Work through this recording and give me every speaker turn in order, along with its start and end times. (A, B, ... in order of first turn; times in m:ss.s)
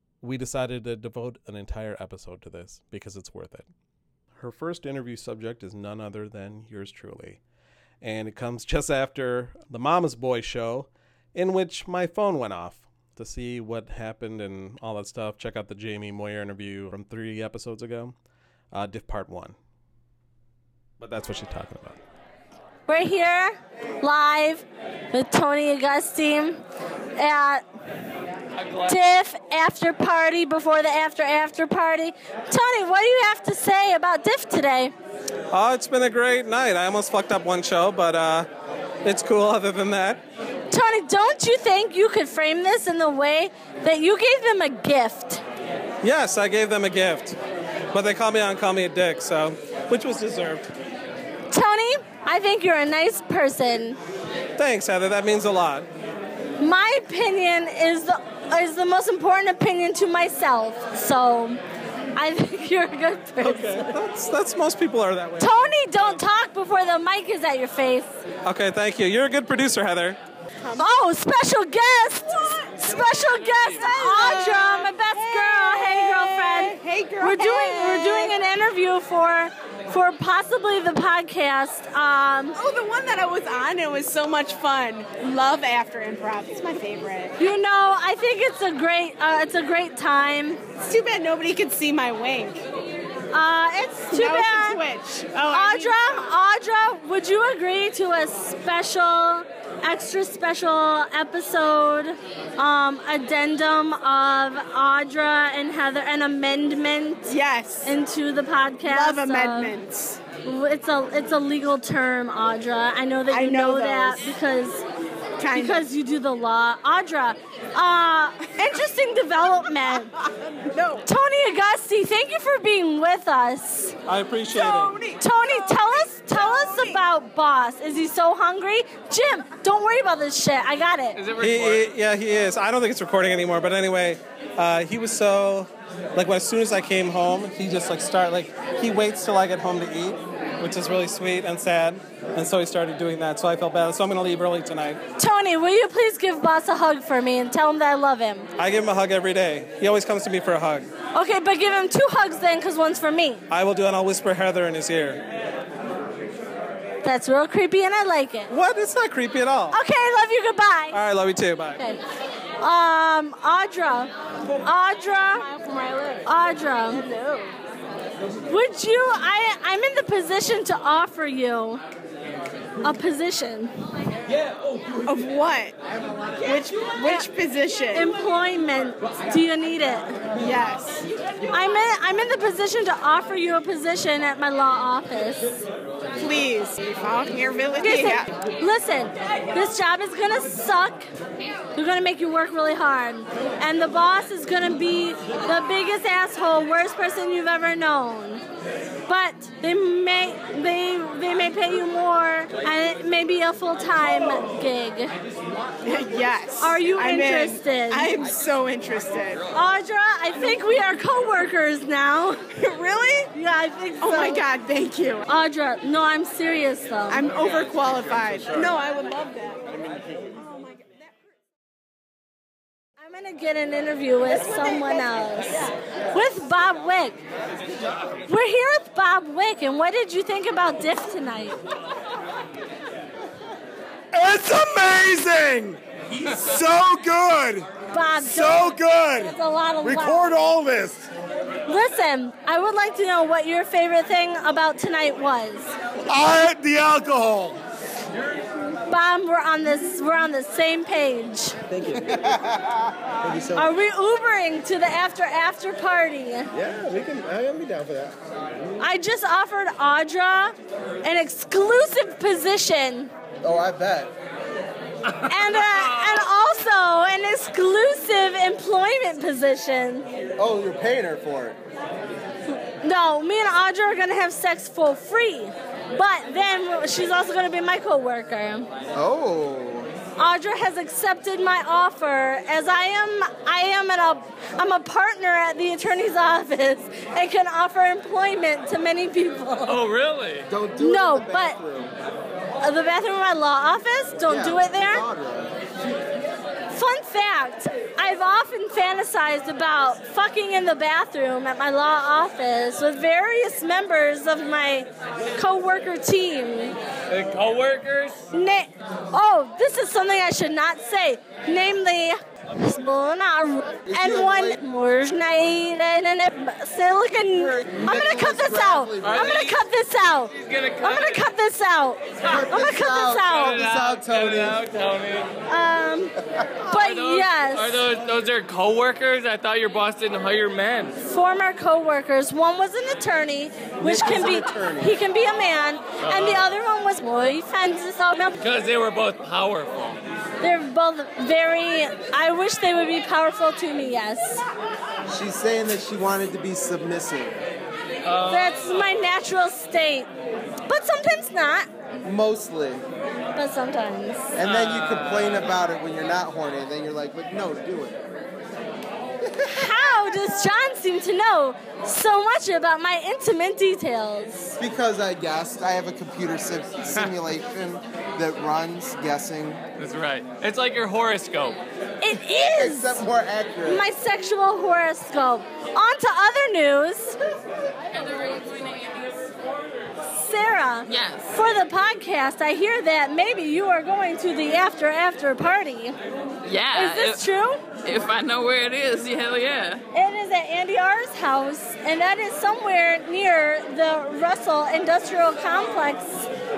0:00.2-0:03.7 A
0:04.4-0:07.4 A
0:08.0-0:18.1 A
0:18.7-0:19.6 A
0:21.0-0:22.0 A
0:22.9-0:26.6 B
0:27.2-0:27.6 B
0:28.6-0:29.0 C
0:28.8-0:34.9 B
0:35.5-0:38.5 A
0:39.0-0:40.2 A
0:40.7-0:45.4 B
0:46.0-0:47.4 A
0:47.9-0:50.6 A
0:51.5-0:54.0 B
0:54.6-0:55.9 A
0:56.6-1:01.6 B
1:02.1-1:03.9 B
1:03.4-1:05.7 A
1:05.4-1:08.2 B
1:08.4-1:10.2 A
1:10.6-1:10.9 D
1:10.8-1:22.6 B
1:12.4-1:12.7 D
1:12.8-1:14.0 C
1:13.7-1:18.4 D
1:22.5-1:27.3 D
1:27.4-1:30.6 B
1:30.8-1:32.6 D
1:33.3-1:34.8 B
1:34.1-1:36.0 D
1:35.4-1:47.3 B
1:47.3-1:47.9 D
1:47.8-1:49.7 B
1:48.8-1:50.2 D
1:50.4-1:54.8 B
1:53.3-1:54.3 D
1:55.4-1:55.8 D
1:55.5-2:00.1 B
2:00.5-2:01.0 D
2:01.0-2:04.0 B
2:04.1-2:05.0 A
2:04.5-2:07.0 D
2:05.2-2:11.2 B
2:11.1-2:11.8 C
2:11.4-2:25.0 A
2:25.2-2:28.5 B
2:28.6-2:30.9 A
2:31.1-2:33.4 B
2:33.5-2:35.2 A
2:37.0-2:38.5 B
2:38.5-2:39.8 A
2:39.7-2:41.0 B
2:40.9-2:41.8 A
2:42.6-2:44.1 B
2:44.6-2:45.5 B
2:45.7-2:46.2 D
2:46.2-2:47.1 B
2:47.1-2:47.5 D
2:48.5-2:51.8 B
2:52.8-2:53.7 B
2:55.0-2:55.8 D
2:56.4-2:58.1 D
2:56.9-2:57.2 B
2:57.9-3:00.1 B
3:00.4-3:01.1 D
3:01.5-3:05.6 B
3:06.2-3:08.3 D
3:07.8-3:11.1 B
3:11.7-3:18.4 B
3:19.1-3:25.1 B
3:25.8-3:29.4 D
3:26.6-3:28.3 B
3:29.5-3:32.4 B
3:32.5-3:33.3 D
3:33.3-3:34.4 B
3:34.0-3:35.2 D
3:35.3-3:37.3 B
3:37.1-3:39.6 D
3:40.3-3:41.0 D
3:43.0-3:47.2 B
3:44.4-3:45.0 D
3:48.3-3:51.6 B
3:54.1-4:01.1 E
3:57.9-4:00.3 B
4:01.7-4:05.7 B
4:06.1-4:07.6 E
4:08.9-4:11.6 B
4:11.8-4:12.2 F
4:13.2-4:13.6 F
4:13.5-4:16.5 B
4:16.5-4:18.1 F
4:18.8-4:23.1 B
4:23.4-4:24.1 F
4:25.3-4:30.1 B
4:30.4-4:31.6 F
4:32.8-4:38.7 B
4:38.9-4:39.9 F
4:40.2-4:49.8 B
4:49.6-4:50.5 C
4:50.5-4:51.9 F
4:50.8-4:51.6 B
4:52.6-4:55.0 B
4:54.3-4:55.5 F
4:56.7-5:06.8 B
5:07.1-5:08.2 C
5:08.3-5:23.5 B
5:13.8-5:14.6 F
5:17.3-5:19.4 F
5:19.0-5:19.6 C
5:20.3-5:21.3 C
5:22.2-5:24.6 F
5:23.2-5:25.3 C
5:25.5-5:26.1 B
5:26.7-5:27.9 B
5:26.7-5:31.0 C
5:31.0-5:38.4 B
5:33.8-5:35.0 F
5:36.0-5:36.5 C
5:38.4-5:40.0 C
5:40.4-5:44.4 B
5:45.1-5:47.4 F
5:48.0-5:49.0 C
5:48.2-5:50.1 B
5:50.7-5:51.7 B
5:52.0-5:52.8 F
5:53.3-5:54.3 B
5:54.4-5:58.1 F
5:54.4-5:55.5 C
5:59.2-5:59.9 F
5:59.5-6:04.6 B
6:04.6-6:09.6 F
6:09.8-6:11.6 C
6:12.0-6:13.0 B
6:12.3-6:13.9 F
6:13.6-6:17.2 B
6:18.0-6:19.0 G
6:20.2-6:26.0 B
6:20.8-6:21.4 G
6:26.4-6:27.3 G
6:26.7-6:27.6 B
6:27.8-6:29.8 G
6:29.9-6:36.3 B